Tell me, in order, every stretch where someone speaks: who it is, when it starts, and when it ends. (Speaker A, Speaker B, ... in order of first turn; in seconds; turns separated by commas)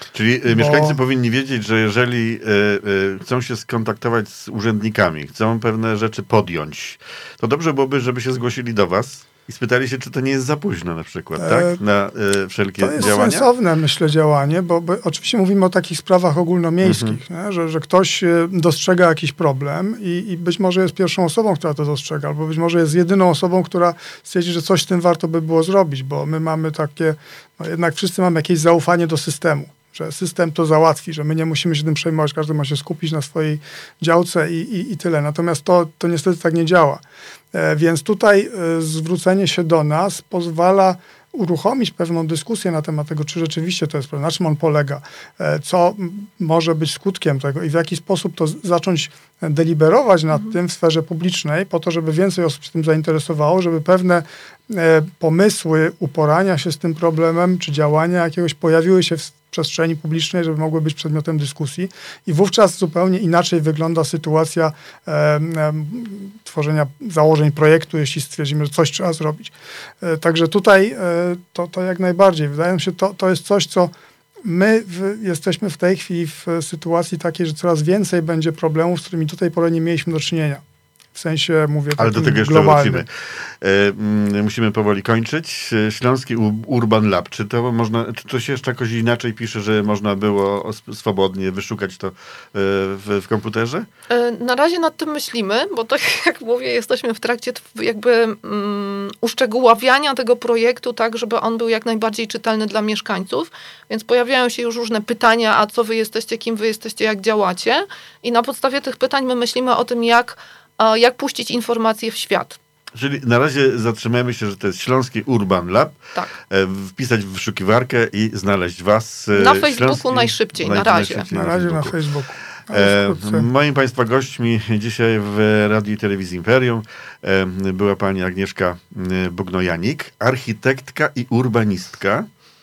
Speaker A: 0.1-13.5, Speaker B: 0.5-1.0, Speaker B: 11.4-11.8, Speaker B: 12.8-73.9, Speaker A: 16.8-17.2, Speaker B: 74.4-80.6, Speaker B: 81.2-83.1, Speaker A: 82.0-93.9, Speaker C: 94.1-112.6, Speaker A: 113.0-116.0, Speaker A: 116.5-122.0, Speaker C: 119.3-121.3, Speaker B: 121.3-123.5, Speaker A: 122.7-132.3